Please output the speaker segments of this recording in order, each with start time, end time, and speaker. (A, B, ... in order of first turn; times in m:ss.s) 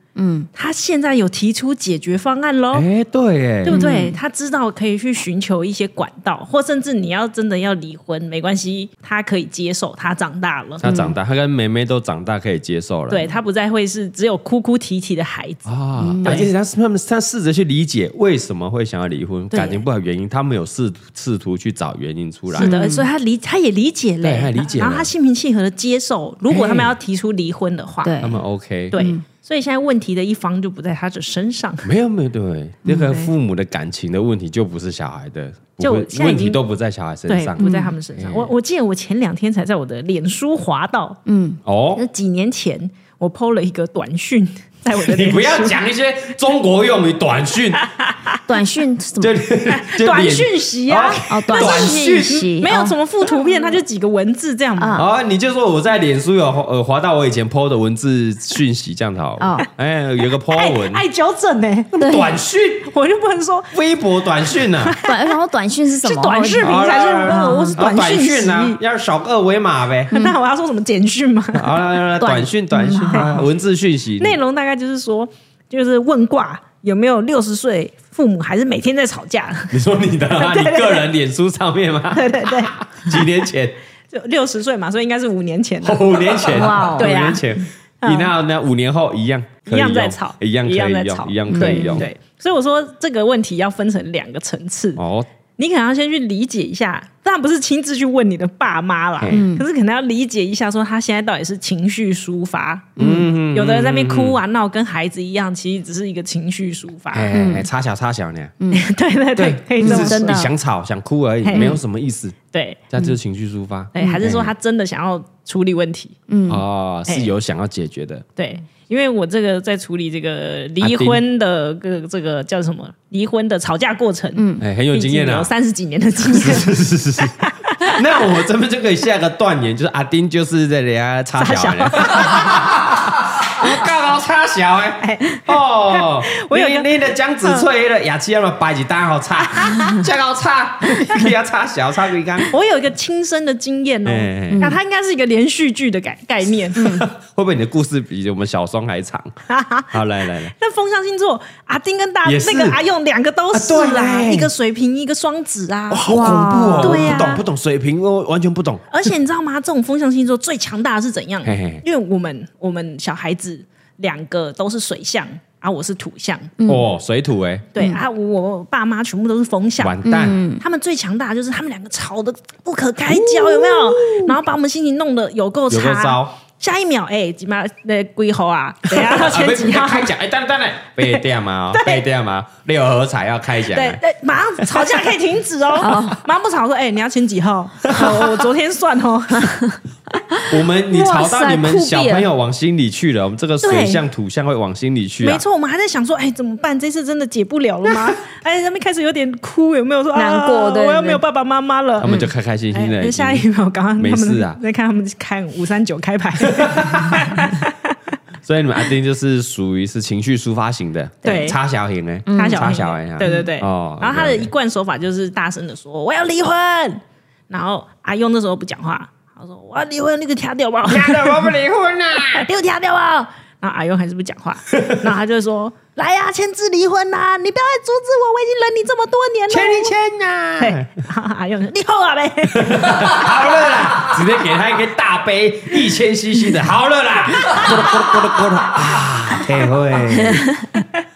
0:00.2-0:00.5 A
0:00.6-0:02.9 B
0:02.7-0:03.9 C
0:03.6-0:10.8 B
0:03.7-0:04.2 A
0:10.8-0:13.3 C
0:10.8-0:11.2 A
0:13.1-0:15.7 B
0:15.7-0:22.7 C
0:16.0-0:16.4 A
0:16.2-0:16.5 B
0:19.5-0:19.8 B
0:22.5-0:28.2 B
0:22.6-0:23.1 A
0:24.2-0:25.1 C
0:26.5-0:26.9 C
0:28.0-0:28.4 A
0:28.2-0:29.0 C
0:28.9-0:31.9 B
0:29.0-0:29.2 A
0:31.8-0:38.5 C
0:32.9-0:33.2 A
0:33.0-0:33.3 B
0:35.8-0:36.6 B
0:37.3-0:41.2 B
0:37.6-0:38.0 A
0:41.3-0:41.6 A
0:41.7-0:42.0 C
0:42.0-0:45.8 B
0:44.9-0:47.9 C
0:48.0-0:48.4 B
0:48.5-0:49.4 A
0:49.2-0:52.5 C
0:49.7-0:55.0 B
0:51.3-0:53.0 A
0:54.8-0:55.1 A
0:55.0-1:01.0 C
0:59.4-0:59.7 A
1:00.5-1:02.0 B
1:01.9-1:02.9 C
1:02.0-1:02.4 A
1:02.8-1:03.7 B
1:03.7-1:05.0 C
1:04.8-1:05.3 B
1:05.0-1:07.8 A
1:06.0-1:08.8 B
1:06.6-1:10.2 C
1:10.1-1:11.8 B
1:11.5-1:14.4 C
1:12.2-1:13.5 A
1:13.1-1:13.4 B
1:14.2-1:19.8 B
1:19.7-1:23.8 C
1:20.3-1:21.1 B
1:22.1-1:23.2 B
1:24.1-1:28.3 B
1:25.8-1:32.1 C
1:26.5-1:27.1 A
1:29.7-1:35.0 B
1:31.5-1:32.1 A
1:35.0-1:35.3 C
1:35.6-1:43.0 B
1:39.2-1:39.4 C
1:39.3-1:39.6 A
1:43.0-1:43.3 A
1:43.0-1:44.4 C
1:43.5-1:47.3 B
1:47.1-1:48.6 C
1:47.3-1:47.7 A
1:48.6-1:48.9 A
1:48.7-1:50.4 B
1:49.4-1:52.4 C
1:49.8-1:50.5 A
1:51.4-1:51.8 B
1:51.5-1:51.8 A
1:52.5-1:52.8 B
1:52.9-1:54.5 C
1:53.9-1:56.2 B
1:56.3-1:56.6 A
1:56.5-1:58.2 C
1:58.4-2:06.7 B
2:00.8-2:01.2 C
2:04.4-2:04.6 A
2:04.6-2:05.5 C
2:06.3-2:22.5 C
2:07.4-2:08.0 B
2:11.4-2:12.8 B
2:15.0-2:16.9 B
2:19.5-2:19.9 B
2:22.5-2:26.8 B
2:24.0-2:24.7 C
2:24.5-2:24.8 A
2:26.8-2:29.3 C
2:26.8-2:27.1 A
2:29.5-2:30.0 B
2:29.9-2:30.5 C
2:30.6-2:36.1 B
2:32.2-2:32.8 C
2:33.5-2:34.5 C
2:35.9-2:38.9 C
2:36.1-2:37.3 A
2:36.8-2:37.4 B
2:38.9-2:46.5 B
2:41.4-2:41.8 C
2:46.6-2:46.9 A
2:46.6-2:47.7 C
2:47.7-2:50.0 B
2:49.8-2:50.4 C
2:50.0-2:50.6 A
2:50.6-3:00.1 B
2:55.7-2:56.3 C
2:58.9-3:04.0 C
3:01.7-3:02.0 B
3:03.7-3:09.6 B
3:04.6-3:05.0 C
3:05.8-3:06.2 A
3:07.8-3:08.4 C
3:09.4-3:12.3 A
3:10.5-3:15.4 C
3:13.6-3:14.0 B
3:15.2-3:22.2 B
3:20.2-3:21.2 A
3:22.0-3:23.5 C
3:22.7-3:28.0 B
3:24.0-3:24.6 C
3:26.5-3:27.4 C
3:28.4-3:34.5 C
3:31.2-3:31.6 B
3:32.3-3:33.5 A
3:32.3-3:41.5 B
3:40.9-3:42.5 C
3:42.3-3:49.9 B
3:44.7-3:45.0 C
3:49.5-3:50.9 C
3:50.6-3:53.3 B
3:52.6-4:00.5 C
3:57.4-3:57.7 B
4:00.2-4:00.8 A